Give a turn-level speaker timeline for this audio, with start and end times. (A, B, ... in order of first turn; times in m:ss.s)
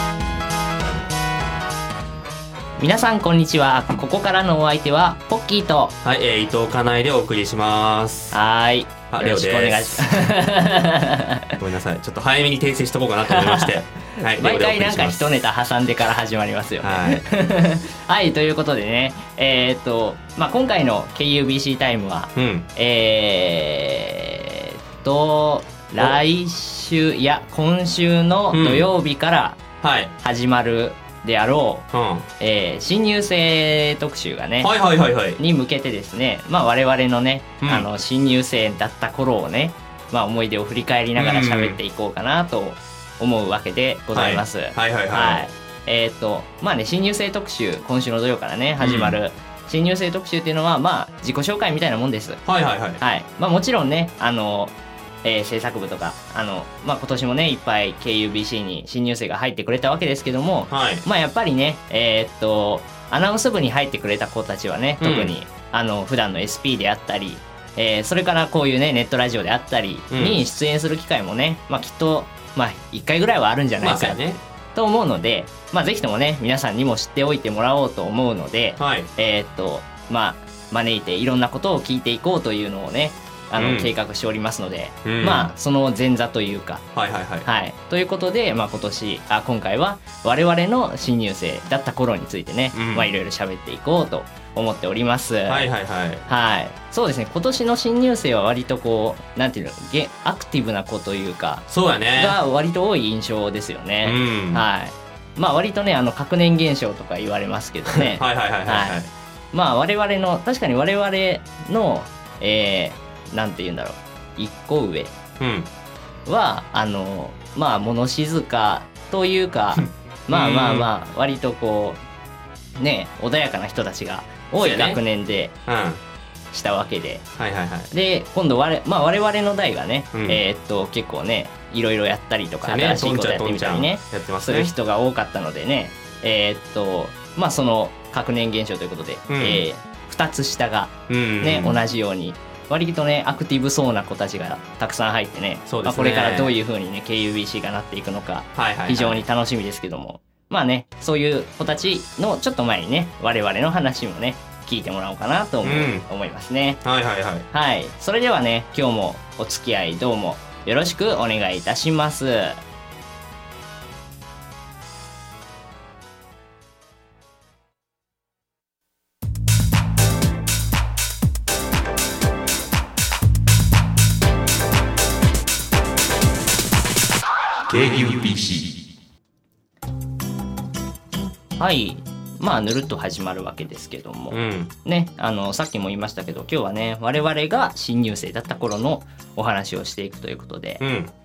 0:02.8-0:05.9 A
0:06.0-0:08.4 B
0:08.3-0:11.5 A
0:09.1-0:10.4 B
0:11.6-0:15.3 B
0:13.3-0:29.6 A
0:16.8-0:17.2 B
0:22.4-0:22.7 B
0:28.5-0:28.9 B
0:29.8-0:30.1 B
0:30.2-0:31.9 A
0:31.9-0:32.3 B
0:32.4-0:34.7 A
0:34.6-0:35.4 B
0:35.4-0:52.4 A
0:37.6-0:37.9 B
0:41.1-0:41.8 B
0:44.1-0:45.4 B
0:48.8-0:49.2 B
0:52.4-0:53.0 B
0:53.0-1:14.2 A
1:00.7-1:01.0 B
1:05.0-1:05.3 B
1:10.1-1:10.4 B
1:13.8-1:14.4 B
1:14.7-1:26.8 A
1:18.8-1:19.1 B
1:23.6-1:23.9 B
1:25.0-1:25.5 B
1:26.9-1:27.5 B
1:27.4-1:35.7 A
1:32.7-1:33.1 B
1:35.5-1:36.2 B
1:36.3-1:49.0 A
1:41.7-1:42.4 B
1:44.0-1:44.7 B
1:47.8-1:49.1 B
1:49.5-1:55.1 A
1:55.4-1:55.7 B
1:56.2-2:02.0 A
2:00.3-2:00.9 B
2:02.8-2:05.5 A
2:04.6-2:05.0 B
2:05.7-2:06.0 B
2:06.5-2:07.3 A
2:07.4-2:07.9 B
2:07.9-2:36.8 A
2:10.1-2:10.4 B
2:12.6-2:14.7 B
2:19.3-2:19.6 B
2:21.1-2:21.8 B
2:25.7-2:26.5 B
2:28.6-2:29.2 B
2:35.6-2:36.1 B
2:36.8-2:37.5 B
2:37.5-2:42.6 A
2:57.7-2:58.6 B
3:01.6-3:10.8 A
3:04.3-3:04.7 B
3:10.8-3:11.1 B